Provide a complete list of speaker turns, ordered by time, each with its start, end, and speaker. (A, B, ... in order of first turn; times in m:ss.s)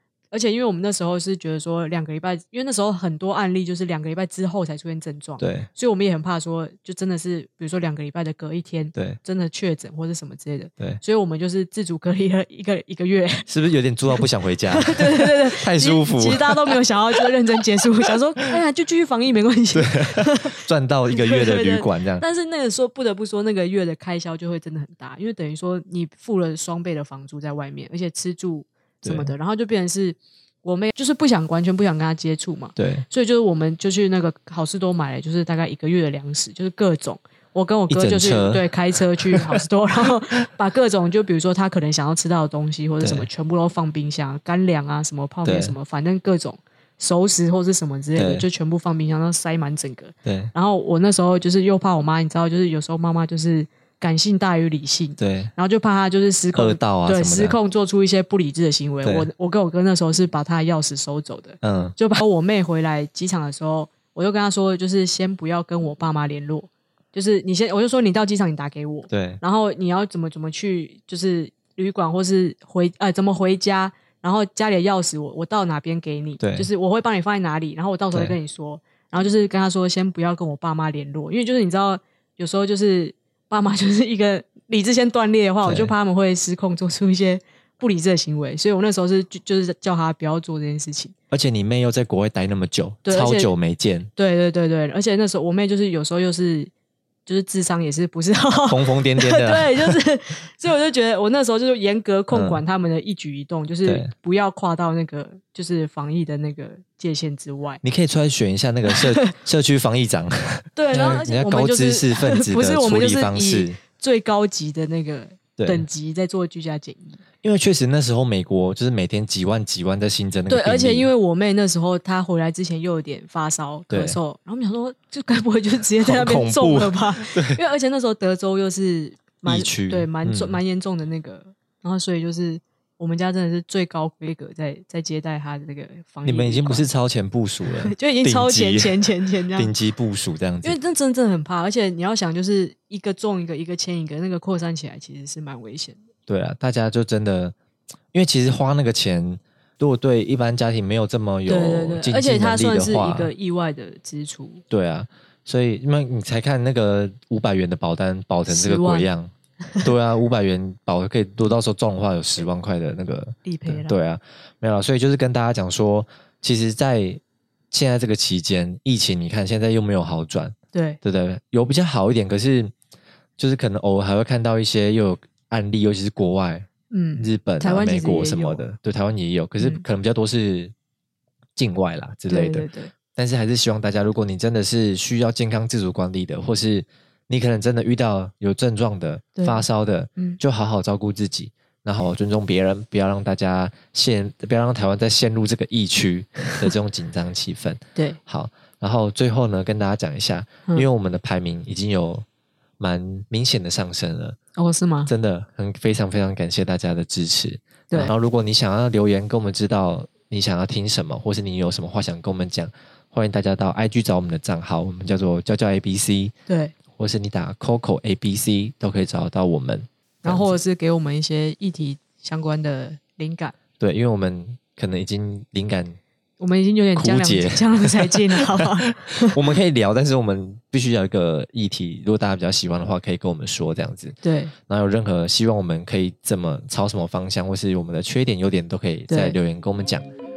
0:00.3-0:13.5 A
0:05.4-0:05.7 B
0:13.5-0:17.2 B
0:14.2-1:31.1 A
0:19.7-0:22.2 B
0:29.0-0:29.3 B
0:32.8-0:33.0 B
0:37.9-0:38.6 B
0:39.3-0:39.6 B
0:43.0-0:43.3 B
0:45.4-0:45.8 B
0:48.2-0:48.4 B
0:50.2-0:50.5 B
0:55.2-0:55.5 B
0:56.5-0:57.6 B
0:59.0-0:59.3 B
1:01.6-1:02.0 B
1:09.1-1:09.4 B
1:16.4-1:16.7 B
1:25.6-1:25.9 B
1:31.3-1:34.1 B
1:33.0-1:33.5 A
1:34.2-1:36.7 A
1:37.2-1:47.8 A
1:38.7-1:40.0 B
1:42.3-1:42.6 B
1:43.8-1:44.1 B
1:47.8-1:53.8 B
1:48.9-1:49.3 A
1:50.8-1:57.2 A
1:55.6-1:55.8 B
1:57.4-2:01.1 B
2:00.5-2:16.8 A
2:03.9-2:04.2 B
2:06.0-2:07.6 B
2:09.4-2:10.6 B
2:16.2-2:19.0 B
2:17.8-2:19.7 A
2:19.5-2:20.8 B
2:20.6-2:26.0 A
2:26.3-2:27.5 B
2:28.1-2:33.3 B
2:31.4-2:34.6 A
2:34.7-2:39.3 B
2:38.5-2:39.1 A
2:39.8-2:47.2 B
2:43.4-2:44.0 A
2:47.7-2:52.7 B
2:50.7-2:51.0 A
2:53.4-3:00.7 B
2:56.9-2:58.6 A
3:01.6-3:22.2 B
3:02.3-3:02.9 A
3:09.4-3:09.6 A
3:22.8-3:24.4 B
3:24.6-3:25.1 A
3:25.1-3:36.3 B
3:36.5-3:36.7 A
3:36.9-3:40.6 B
3:40.2-3:43.6 A
3:43.8-3:46.0 B
3:46.4-3:49.4 A
3:47.0-3:54.2 B
3:54.2-3:54.5 A
3:54.7-4:00.1 B
3:59.1-3:59.4 A